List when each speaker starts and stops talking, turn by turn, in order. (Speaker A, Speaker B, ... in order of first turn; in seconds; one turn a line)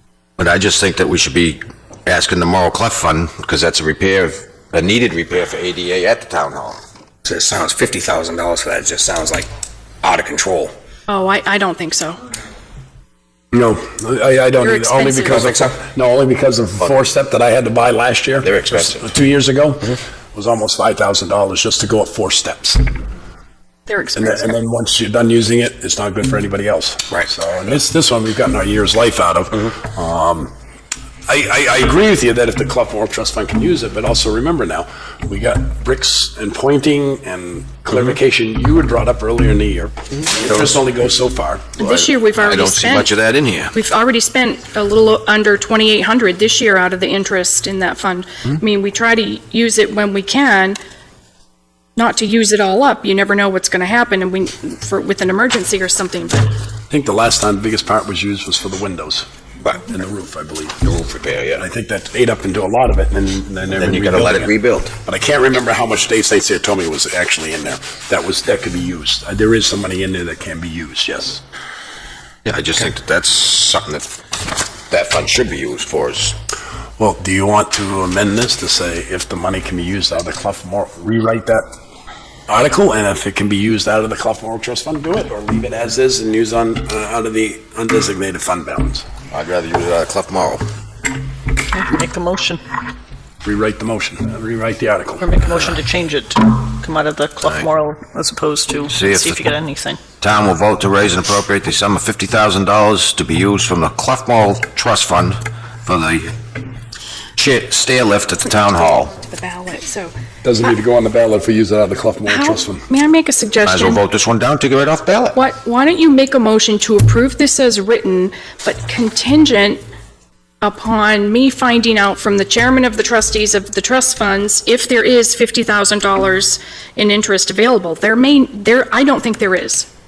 Speaker A: 0.4-6.8
Speaker B: 7.2-9.5
Speaker B: 10.0-10.7
Speaker C: 11.1-12.2
Speaker D: 13.5-22.8
Speaker C: 14.6-15.5
Speaker B: 15.4-15.8
Speaker A: 18.4-19.1
Speaker C: 23.9-24.5
Speaker D: 24.1-30.5
Speaker D: 31.3-41.7
Speaker C: 41.8-43.1
Speaker A: 41.8-43.7
Speaker C: 43.7-50.8
Speaker C: 52.0-56.5
Speaker D: 56.9-59.3
Speaker D: 59.8-60.8
Speaker A: 60.8-61.6
Speaker D: 61.6-64.5
Speaker A: 63.7-64.9
Speaker D: 65.0-71.4
Speaker A: 72.4-74.1
Speaker A: 74.9-76.4
Speaker D: 77.0-81.7
Speaker D: 82.5-89.0
Speaker A: 89.3-90.6
Speaker E: 91.7-92.6
Speaker D: 93.4-95.2
Speaker E: 95.2-100.0
Speaker A: 98.9-99.5
Speaker A: 100.2-106.3
Speaker A: 107.3-109.1
Speaker C: 108.9-110.1
Speaker D: 110.4-112.8
Speaker C: 112.3-114.0
Speaker A: 113.6-115.4
Speaker C: 115.3-119.8
Speaker C: 120.6-129.9